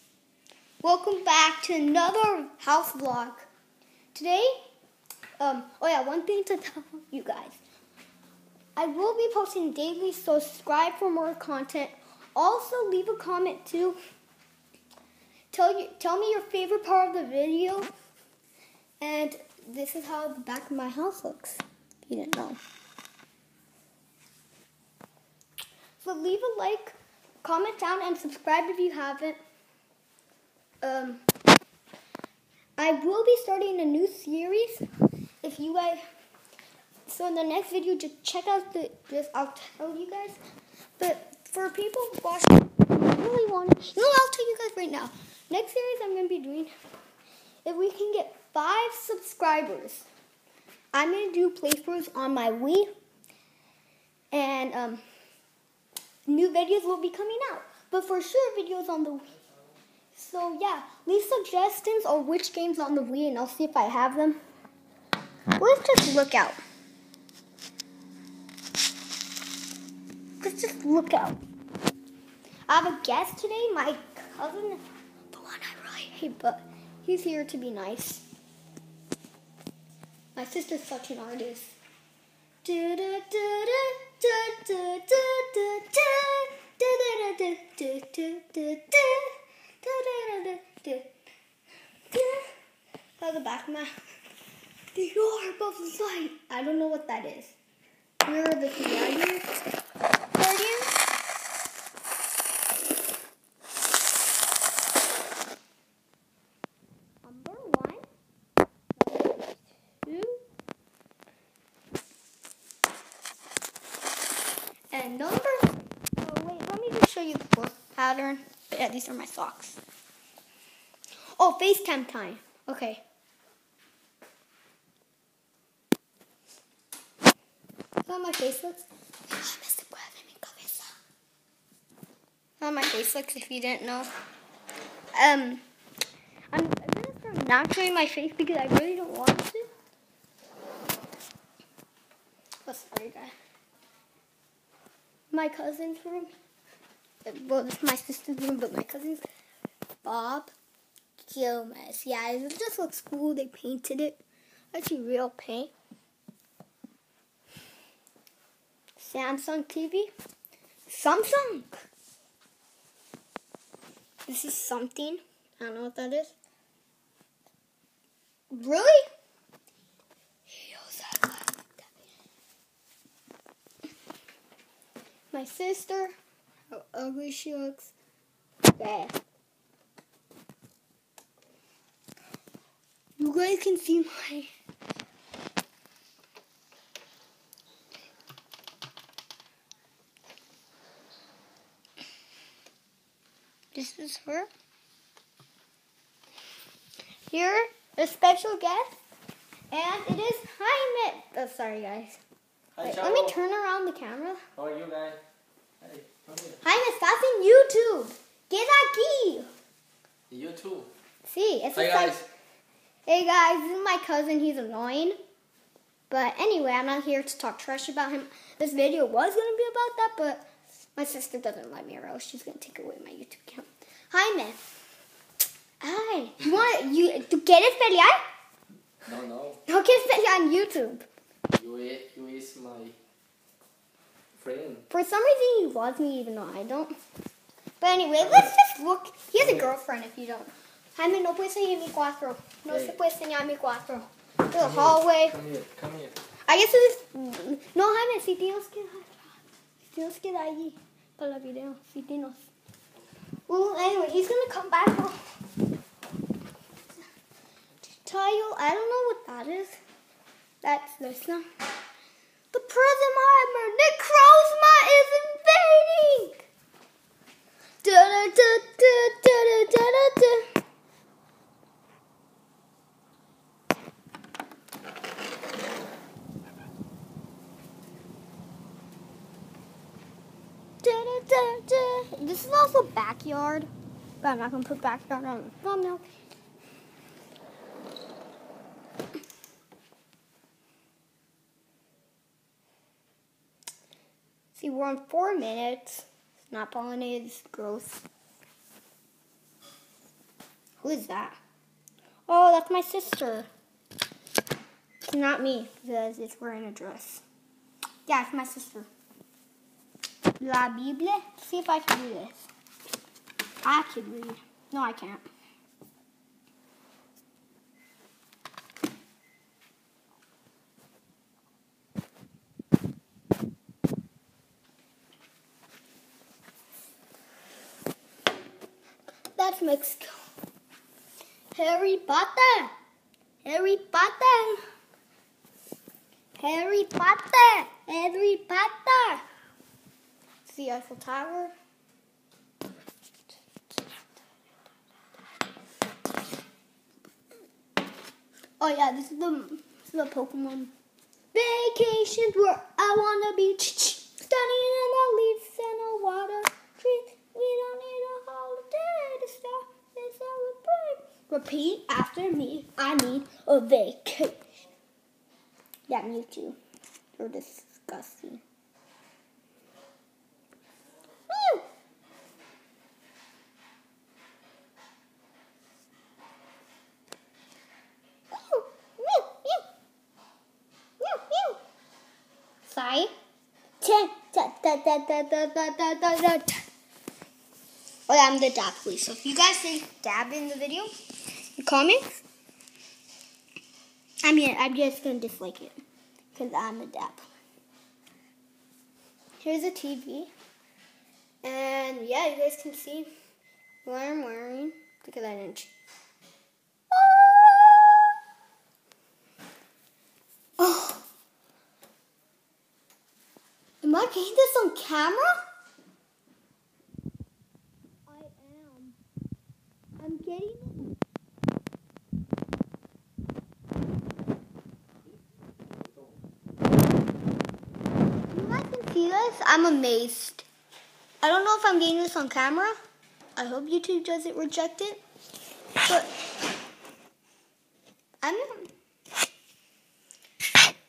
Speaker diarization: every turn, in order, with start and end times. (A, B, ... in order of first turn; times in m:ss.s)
0:00.8-0:03.5 A
0:04.1-0:04.6 A
0:05.4-0:07.6 A
0:08.8-0:14.0 A
0:15.5-0:17.9 A
0:19.0-0:22.6 A
0:26.0-0:29.4 A
0:30.8-0:31.2 A
0:32.8-0:34.8 A
0:35.4-0:36.0 A
0:37.1-0:40.4 A
0:41.0-0:46.7 A
0:47.6-0:50.1 A
0:50.9-0:52.9 A
0:54.3-0:55.0 A
0:56.3-0:59.4 A
1:00.1-1:04.4 A
1:05.6-1:06.6 A
1:10.4-1:11.4 A
1:12.7-1:18.2 A
1:20.4-1:21.8 A
1:22.6-1:31.1 A
1:32.1-1:32.5 A
1:33.2-1:33.9 A
1:34.9-1:37.6 A
1:38.2-1:39.5 A
1:40.3-1:41.0 A
1:47.2-1:48.0 A
1:49.0-1:50.4 A
1:54.9-1:59.8 A
2:01.4-2:03.0 A
2:08.0-2:11.0 A
2:12.6-2:14.1 A
2:15.1-2:15.6 A
2:16.5-2:19.7 A
2:22.6-2:23.3 A
2:25.3-2:26.4 A
2:27.2-2:29.2 A
2:30.0-2:30.5 A
2:31.2-2:34.2 A
2:34.7-2:35.7 A
2:39.0-2:40.1 A
2:40.9-2:41.8 A
2:44.3-2:46.4 A
2:48.5-2:49.0 A
2:50.5-2:51.7 A
2:55.3-2:56.2 A
2:56.7-2:57.9 A
2:58.7-2:59.2 A
3:03.2-3:04.5 A
3:13.7-3:14.5 A
3:17.3-3:19.0 A
3:19.7-3:22.2 A
3:22.8-3:23.4 B
3:22.8-3:24.4 A
3:24.6-3:25.2 B
3:25.8-3:26.6 B
3:26.6-3:29.5 A
3:30.3-3:30.9 B
3:31.2-3:32.2 A
3:31.7-3:32.3 B
3:33.1-3:35.2 A
3:36.1-3:44.6 A
3:45.8-3:48.2 A
3:49.0-3:49.6 B
3:49.7-3:51.1 A
3:51.5-3:53.0 B
3:54.4-3:54.9 B
3:54.9-3:57.0 A
3:57.8-4:05.4 A
3:58.2-3:58.5 B
3:59.4-3:59.7 B
4:02.7-4:03.0 B
4:04.5-4:06.2 B
4:06.5-4:12.5 A
4:13.5-4:15.2 A
4:18.0-4:19.8 A
4:20.6-4:21.5 A
4:22.5-4:26.5 A
4:27.8-4:30.5 A
4:40.8-4:43.7 A
4:44.2-4:46.0 A
4:54.5-4:58.0 A
5:00.8-5:01.4 A
5:02.3-5:03.5 A
5:05.1-5:07.2 A
5:08.1-5:08.9 A
5:10.4-5:12.5 A
5:13.6-5:15.2 A
5:29.4-5:30.3 A
5:31.5-5:32.7 A
5:33.4-5:34.6 A
5:36.4-5:39.2 A
5:40.4-5:41.6 A
5:48.6-5:50.7 A
5:51.3-6:04.4 A
6:05.9-6:06.6 A
6:07.2-6:08.4 A
6:11.3-6:11.6 A
6:18.3-6:19.6 A
6:21.0-6:21.6 A
6:22.7-6:23.1 A
6:23.8-6:26.6 A
6:28.1-6:30.9 A
6:31.6-6:32.2 A
6:34.2-6:35.8 A
6:36.3-6:37.3 A
6:39.4-6:40.3 A
6:41.4-6:43.1 A
6:43.8-6:45.7 A
6:46.9-6:48.1 A
6:50.6-6:51.0 A
6:53.8-6:55.4 A
6:58.1-6:59.0 A
7:00.0-7:01.0 A
7:05.6-7:06.1 B
7:08.3-7:10.5 A
7:11.2-7:12.8 A
7:13.4-7:15.0 A
7:15.8-7:16.1 A
7:18.2-7:18.7 A